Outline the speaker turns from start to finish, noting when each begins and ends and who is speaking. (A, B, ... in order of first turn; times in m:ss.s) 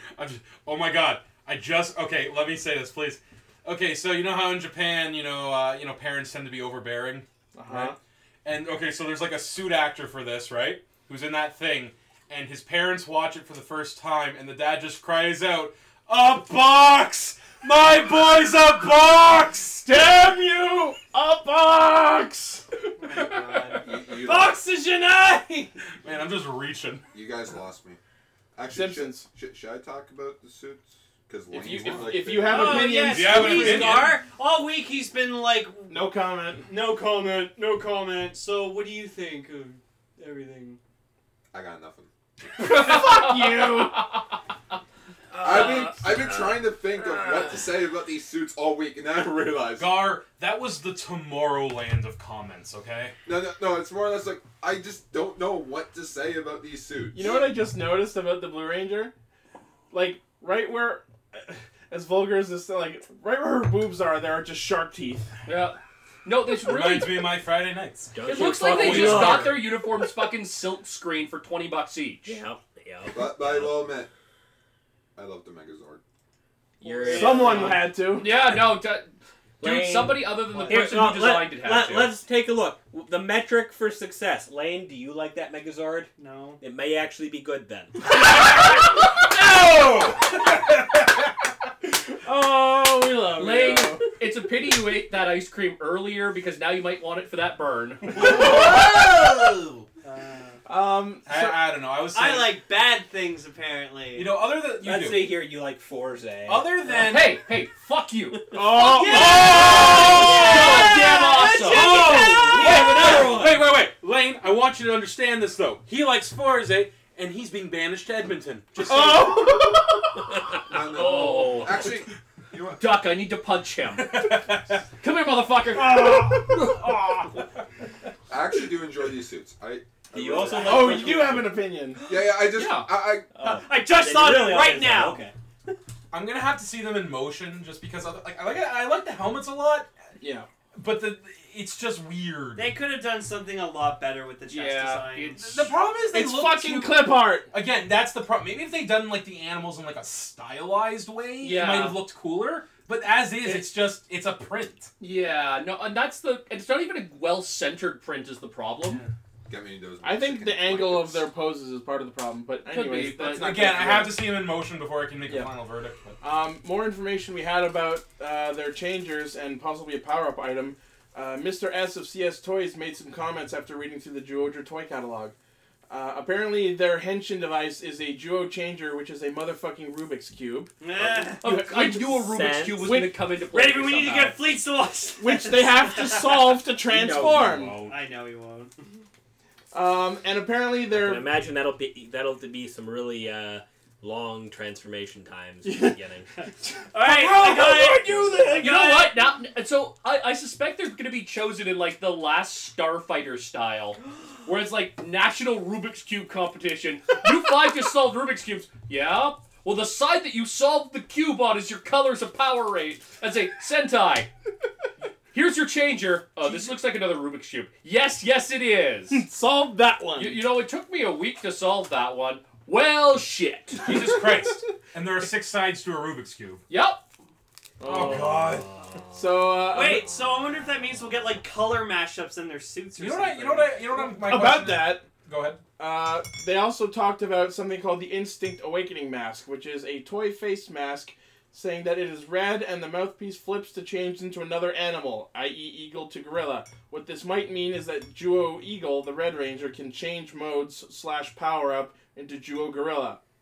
0:00.2-0:19.9 A
0:07.5-0:08.0 B
0:19.8-0:22.7 B
0:23.0-0:25.7 C
0:23.8-0:24.6 D
0:26.0-0:27.0 A
0:27.1-0:28.0 D
0:28.5-0:32.9 D
0:28.7-0:29.3 B
0:31.5-0:34.0 B
0:32.4-0:35.9 C
0:33.0-0:34.2 A
0:35.9-0:36.7 B
0:36.6-0:40.8 C
0:41.5-0:42.1 D
0:42.6-0:44.1 B
0:42.6-0:44.3 E
0:45.3-0:47.6 C
0:45.4-0:49.9 D
0:49.8-0:53.1 A
0:53.2-0:57.2 D
0:57.1-0:59.1 B
0:59.9-1:05.3 B
1:05.4-1:07.4 E
1:06.6-1:09.6 A
1:08.1-1:09.8 F
1:08.2-1:12.4 E
1:12.2-1:13.8 F
1:13.1-1:14.1 D
1:15.2-1:16.0 D
1:16.8-1:17.9 F
1:16.8-1:17.9 C
1:17.0-1:18.3 B
1:17.7-1:22.2 E
1:19.6-1:28.0 F
1:20.4-1:20.9 C
1:26.2-1:26.6 C
1:28.2-1:30.8 A
1:31.9-1:34.0 B
1:33.4-1:38.4 E
1:38.1-1:39.8 A
1:38.4-1:38.7 F
1:40.0-1:40.6 C
1:40.6-1:41.7 B
1:41.2-1:42.5 A
1:42.1-1:44.4 C
1:44.1-1:45.3 A
1:44.8-1:47.1 F
1:46.4-1:47.4 A
1:47.0-1:51.9 E
1:48.5-1:51.4 B
1:49.0-1:53.4 C
1:49.1-1:51.0 F
1:49.4-1:50.6 A
1:51.7-1:59.7 A
1:51.8-1:53.6 F
1:58.8-2:00.7 B
2:00.7-2:03.0 D
2:00.7-2:01.9 E
2:02.8-2:04.4 E
2:04.0-2:04.8 A
2:05.0-2:06.3 E
2:05.7-2:07.4 B
2:08.3-2:11.4 D
2:10.1-2:11.5 F
2:10.5-2:12.0 B
2:12.1-2:13.3 D
2:12.5-2:12.9 E
2:13.3-2:15.3 F
2:13.4-2:15.3 C
2:16.1-2:19.9 A
2:20.2-2:20.5 B
2:20.7-2:22.7 A
2:22.5-2:25.7 C
2:24.5-2:25.7 E
2:25.4-2:34.9 A
2:26.1-2:27.5 B
2:31.4-2:32.0 E
2:35.0-2:39.0 E
2:39.5-2:41.3 D
2:40.0-2:44.4 B
2:42.6-2:43.6 E
2:43.3-2:46.2 A
2:45.2-2:45.5 B
2:46.2-2:55.3 B
2:55.9-3:00.7 B
3:00.8-3:01.5 C
3:01.4-3:04.4 E
3:01.4-3:02.2 B
3:02.3-3:02.8 F
3:02.8-3:03.2 B
3:03.4-3:08.9 C
3:05.2-3:07.8 B
3:06.9-3:08.0 F
3:09.7-3:11.3 B
3:10.9-3:16.3 F
3:15.6-3:16.0 B
3:16.9-3:19.2 C
3:17.0-3:18.6 A
3:18.6-3:34.3 E
3:35.3-3:39.2 E
3:39.1-3:40.4 B
3:40.2-3:43.9 E
3:43.8-3:46.6 A
3:43.9-3:44.5 B
3:46.7-3:47.0 E
3:47.8-3:48.6 B
3:47.8-3:48.9 A
3:49.1-3:50.0 B
3:49.7-3:53.9 C
3:53.0-3:55.6 A
3:54.0-3:55.0 B
3:55.8-4:13.2 B